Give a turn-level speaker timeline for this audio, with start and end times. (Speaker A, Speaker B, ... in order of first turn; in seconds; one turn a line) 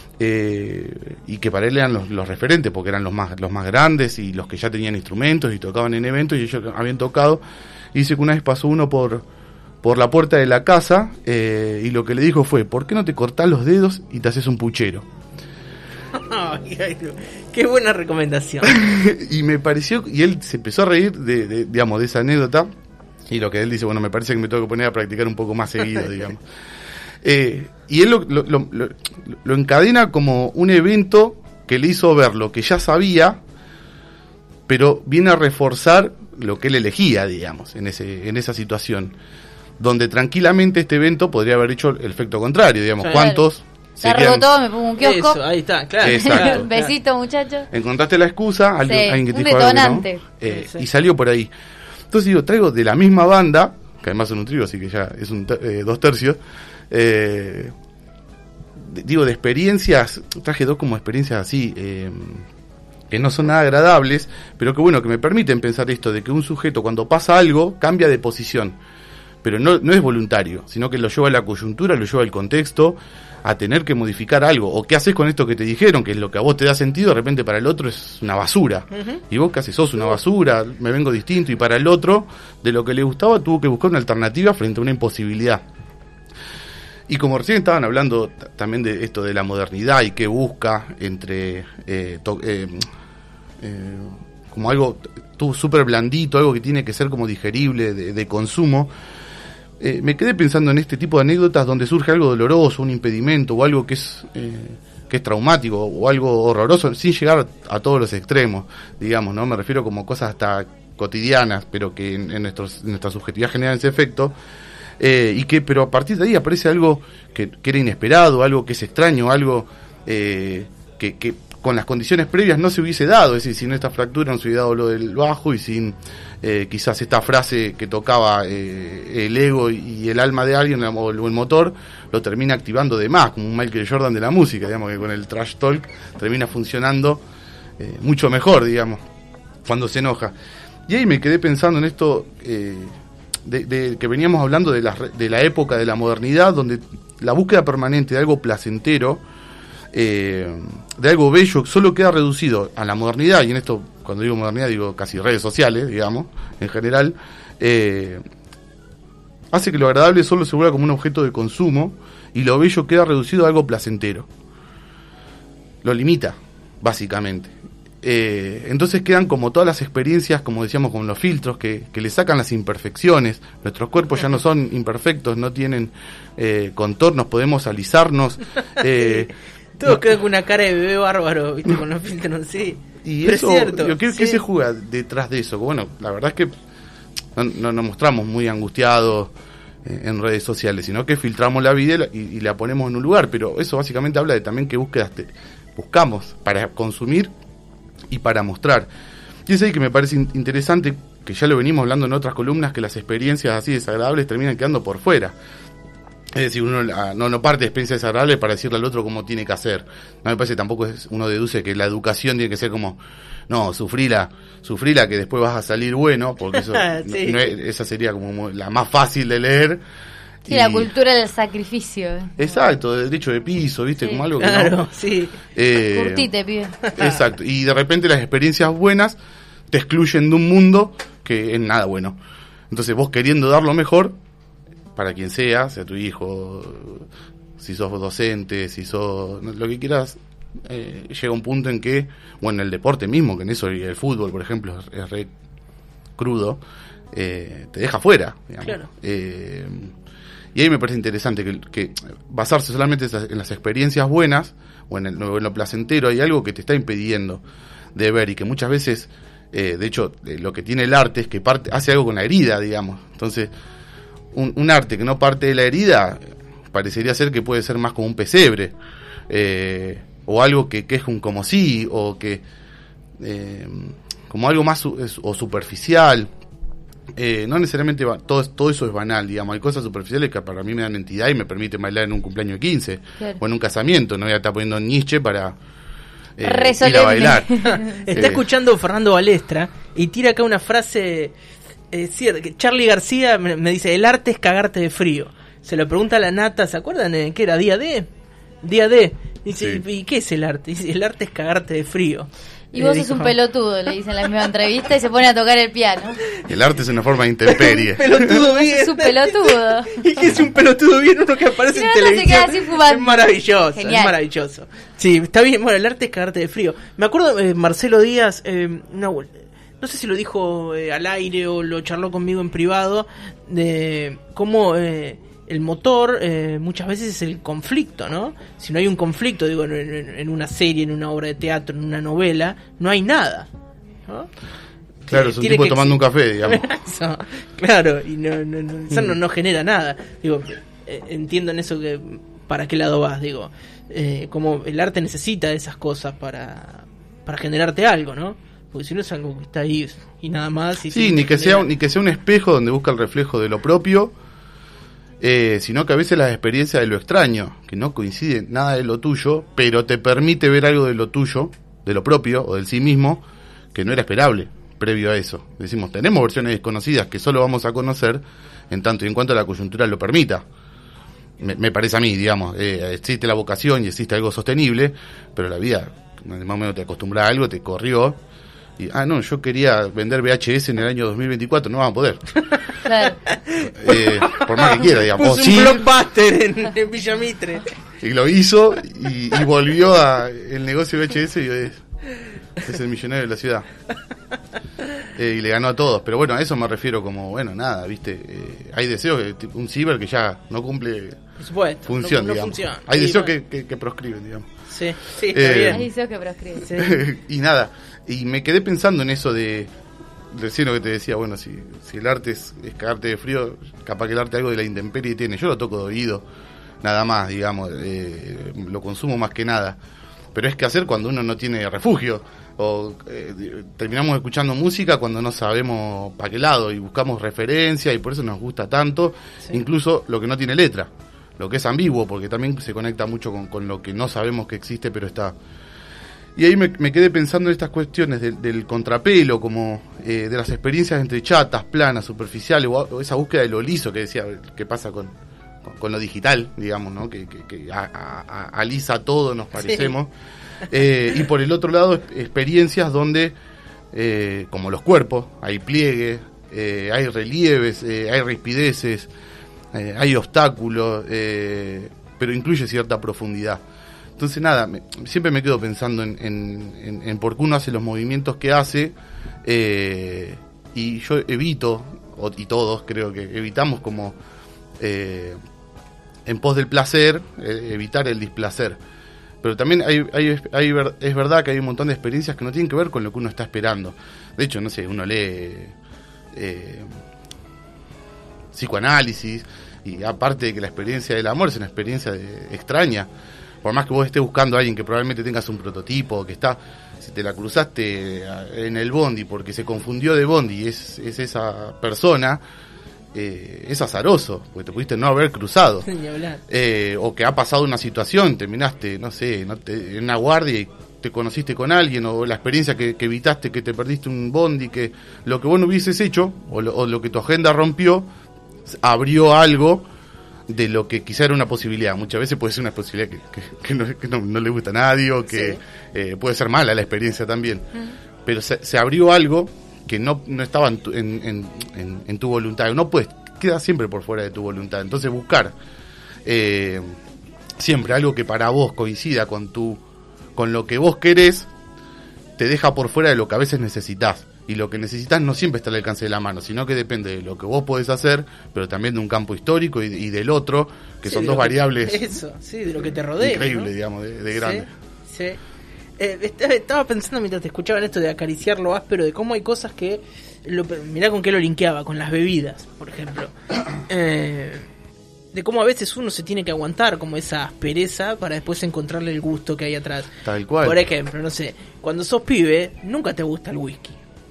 Speaker A: 0.2-7.4
Speaker A: 7.9-9.2
Speaker A: 9.8-15.1
Speaker B: 16.1-18.8
Speaker A: 18.6-22.7
Speaker A: 23.3-26.4
Speaker A: 27.2-33.4
Speaker A: 34.7-39.2
Speaker A: 39.8-44.5
Speaker B: 43.0-43.3
Speaker C: 43.1-43.4
Speaker C: 44.0-45.4
Speaker B: 45.0-46.9
Speaker A: 46.0-46.7
Speaker C: 46.0-47.7
Speaker A: 47.7-51.5
Speaker C: 48.8-50.2
Speaker B: 50.5-50.9
Speaker A: 52.1-56.4
Speaker A: 56.9-57.7
Speaker A: 58.8-62.5
Speaker A: 63.1-68.8
Speaker A: 69.4-85.6
Speaker B: 79.0-79.2
Speaker A: 87.1-92.8
Speaker A: 93.6-98.9
Speaker A: 99.8-114.3
Speaker A: 115.0-137.2
Speaker A: 137.8-139.0
Speaker A: 139.6-140.3
Speaker A: 140.9-149.2
Speaker A: 149.9-158.2
Speaker A: 159.5-164.3
Speaker A: 165.8-179.3
Speaker B: 178.8-184.4
Speaker A: 179.8-180.2
Speaker A: 183.0-186.5
Speaker A: 187.3-189.3
Speaker A: 189.8-197.3
Speaker A: 198.1-198.9
Speaker A: 199.5-205.3
Speaker A: 206.3-219.8
Speaker B: 216.5-217.5
Speaker C: 220.5-222.4
Speaker A: 220.5-220.9
Speaker A: 222.4-224.8
Speaker B: 224.4-225.4
Speaker A: 225.5-226.3
Speaker C: 225.9-226.8
Speaker B: 226.9-227.2
Speaker A: 226.9-229.2
Speaker A: 229.7-232.2
Speaker A: 232.7-234.2
Speaker A: 234.9-237.1
Speaker A: 237.6-245.3
Speaker A: 246.2-246.6
Speaker A: 247.1-249.9
Speaker A: 250.6-257.4
Speaker A: 257.9-263.5
Speaker A: 264.3-268.8
Speaker A: 269.3-272.4
Speaker A: 273.2-276.3
Speaker A: 277.2-285.6
Speaker A: 286.4-288.4
Speaker C: 286.4-288.0
Speaker B: 287.6-291.3
Speaker B: 291.9-298.1
Speaker B: 298.6-303.3
Speaker A: 299.6-299.8
Speaker C: 302.7-306.2
Speaker A: 306.4-308.4
Speaker B: 307.4-333.5
Speaker C: 308.3-310.0
Speaker C: 311.7-314.1
Speaker A: 335.1-336.7
Speaker B: 335.1-351.7
Speaker A: 338.9-339.2
Speaker A: 350.9-354.1
Speaker A: 355.2-370.4
Speaker A: 371.4-378.2
Speaker A: 378.8-382.3
Speaker C: 382.8-383.2
Speaker B: 383.3-387.7
Speaker A: 383.6-385.9
Speaker A: 388.0-391.8
Speaker A: 392.6-393.7
Speaker A: 395.1-401.2
Speaker B: 401.4-403.3
Speaker A: 401.9-404.5
Speaker B: 404.7-405.9
Speaker A: 405.2-405.9
Speaker C: 405.6-406.7
Speaker B: 406.6-406.9
Speaker A: 406.7-409.7
Speaker A: 410.3-416.2
Speaker A: 416.8-419.8
Speaker A: 420.3-435.4
Speaker A: 436.4-450.1
Speaker B: 449.6-449.9
Speaker A: 450.7-453.4
Speaker A: 453.9-459.1
Speaker A: 459.7-463.6
Speaker A: 464.2-474.2
Speaker A: 474.8-475.4
Speaker A: 476.3-478.8
Speaker A: 479.4-485.8
Speaker A: 486.3-486.9
Speaker A: 488.5-493.1
Speaker A: 493.6-502.4
Speaker A: 503.1-505.9
Speaker B: 505.9-506.4
Speaker A: 506.5-518.1
Speaker A: 518.7-519.9
Speaker A: 520.5-527.7
Speaker B: 525.3-525.6
Speaker A: 528.2-535.5
Speaker A: 536.2-537.0
Speaker A: 537.6-539.8
Speaker A: 540.4-541.5
Speaker A: 542.4-552.0
Speaker B: 551.1-553.7
Speaker A: 553.2-554.7
Speaker B: 554.3-555.4
Speaker B: 556.0-564.7
Speaker B: 565.3-570.1
Speaker A: 570.2-570.8
Speaker B: 570.6-574.0